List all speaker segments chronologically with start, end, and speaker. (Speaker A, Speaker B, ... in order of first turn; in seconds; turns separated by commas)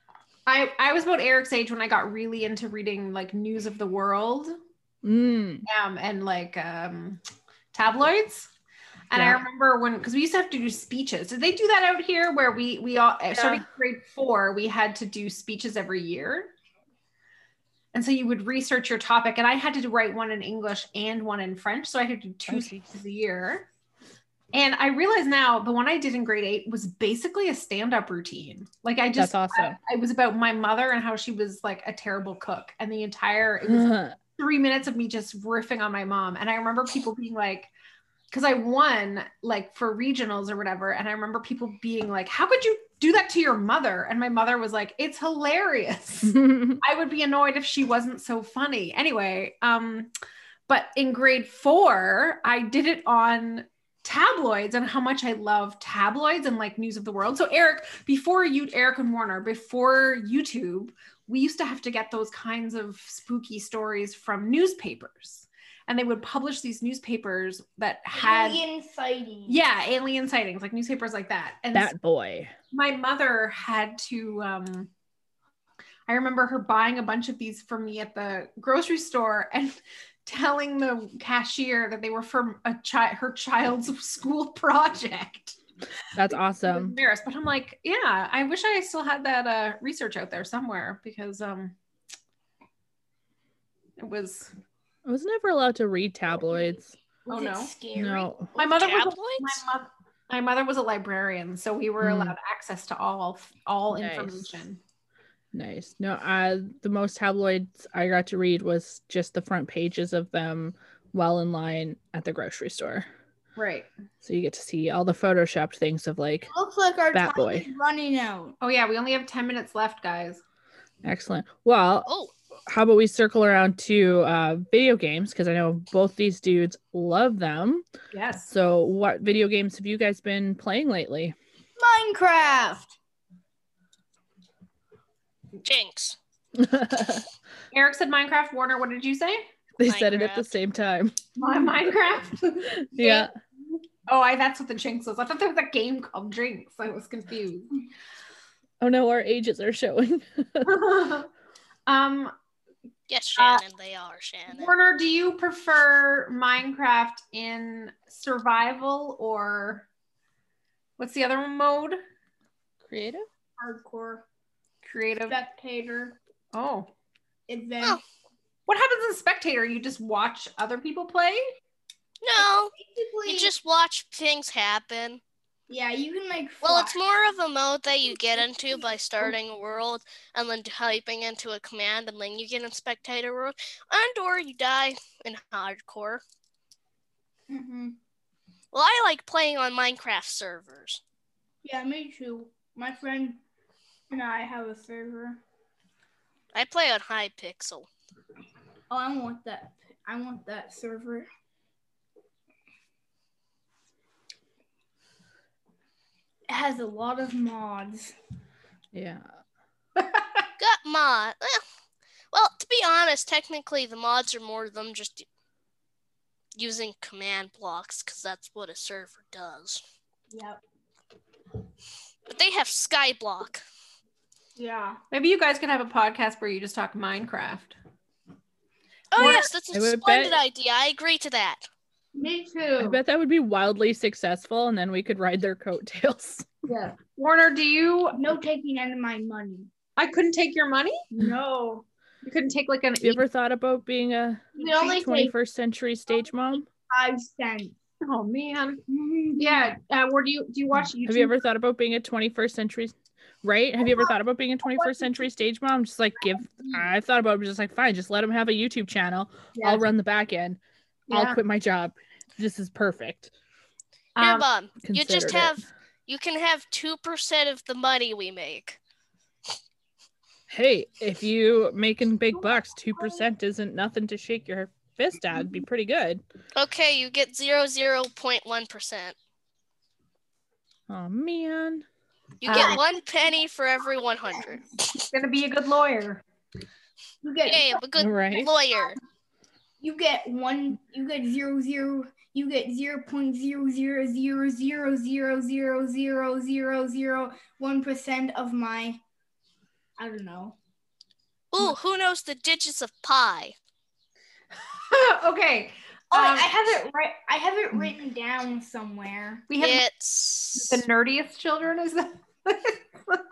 Speaker A: 0.5-4.6, Speaker B: 5.0-5.7, Speaker A: 5.7-7.2, Speaker A: 7.7-8.5, Speaker A: 9.1-16.5, Speaker B: 9.1-9.4, Speaker B: 13.3-13.7, Speaker A: 17.9-23.7, Speaker B: 22.5-22.9, Speaker A: 24.5-37.7, Speaker B: 29.1-29.8, Speaker B: 33.6-34.2, Speaker A: 38.3-50.1, Speaker B: 46.2-46.8, Speaker A: 50.7-68.6, Speaker C: 68.1-69.6, Speaker A: 69.5-71.9, Speaker B: 71.7-72.5, Speaker A: 72.7-74.9, Speaker A: 76.1-85.6, Speaker B: 86.1-87.0, Speaker A: 86.6-91.8, Speaker A: 94.0-94.5, Speaker B: 95.1-97.0, Speaker C: 97.3-98.5, Speaker A: 97.3-97.7, Speaker B: 98.0-98.5, Speaker A: 98.5-104.8, Speaker D: 98.6-99.6, Speaker B: 102.0-102.4, Speaker B: 103.9-104.6, Speaker B: 105.5-113.1, Speaker A: 113.6-113.9, Speaker B: 114.2-116.5, Speaker C: 116.5-118.6, Speaker B: 117.1-117.7, Speaker A: 118.6-120.4, Speaker B: 121.0-122.1, Speaker D: 122.1-122.3, Speaker B: 122.7-127.9, Speaker A: 128.1-128.5, Speaker B: 128.5-131.4, Speaker C: 131.8-132.9, Speaker D: 135.6-136.2, Speaker B: 136.6-137.3, Speaker A: 137.7-139.5, Speaker B: 139.8-141.2, Speaker D: 139.8-140.5, Speaker A: 141.4-143.3, Speaker B: 142.9-143.3, Speaker A: 144.1-147.8, Speaker B: 148.8-150.8, Speaker A: 150.6-151.3, Speaker A: 151.9-152.3, Speaker D: 153.1-154.7, Speaker A: 153.4-153.6, Speaker A: 154.5-159.9, Speaker A: 161.0-162.0, Speaker B: 162.8-163.3, Speaker C: 163.6-164.2, Speaker A: 164.8-165.4, Speaker C: 165.3-166.2, Speaker A: 166.5-166.9, Speaker C: 167.5-168.0, Speaker A: 168.7-171.6, Speaker D: 172.2-172.7, Speaker C: 172.4-173.5, Speaker D: 173.3-175.2, Speaker C: 175.7-177.0, Speaker D: 176.6-186.2, Speaker C: 187.5-188.0, Speaker D: 188.7-191.0, Speaker C: 191.6-193.4, Speaker C: 194.1-195.4, Speaker D: 196.5-197.9, Speaker C: 198.9-201.3, Speaker C: 206.5-208.1, Speaker B: 208.9-209.3, Speaker A: 210.0-210.2, Speaker D: 210.6-211.6, Speaker D: 212.3-215.3, Speaker D: 216.6-219.8, Speaker C: 220.3-220.6, Speaker D: 222.3-223.6, Speaker C: 224.6-225.0, Speaker A: 225.1-227.8, Speaker D: 229.1-231.6, Speaker A: 229.2-229.5, Speaker B: 229.2-230.4, Speaker C: 232.1-233.0, Speaker B: 232.8-236.5, Speaker A: 236.7-238.2, Speaker C: 238.1-239.7, Speaker A: 240.0-241.0, Speaker C: 241.1-241.8, Speaker A: 242.2-243.2, Speaker B: 243.0-246.7, Speaker C: 244.6-245.3, Speaker C: 246.3-247.8, Speaker A: 248.0-248.8, Speaker C: 248.9-249.7, Speaker A: 249.4-251.3, Speaker B: 250.8-260.6, Speaker C: 256.6-256.9, Speaker A: 259.6-259.8, Speaker A: 261.1-261.4, Speaker B: 261.1-263.3, Speaker A: 264.2-264.5, Speaker D: 264.2-268.8, Speaker B: 264.8-265.6, Speaker B: 270.5-276.2, Speaker D: 276.6-279.1, Speaker B: 280.9-281.9, Speaker D: 282.4-284.9, Speaker A: 282.5-282.8, Speaker C: 282.5-282.8, Speaker C: 284.2-284.6, Speaker A: 285.1-286.2, Speaker C: 287.2-287.8, Speaker D: 287.5-289.0, Speaker B: 288.0-288.5, Speaker C: 289.8-299.0, Speaker C: 300.0-300.6, Speaker D: 301.5-303.6, Speaker A: 304.6-306.5, Speaker C: 306.1-309.4, Speaker A: 309.5-309.8, Speaker D: 309.6-310.9, Speaker A: 310.5-313.2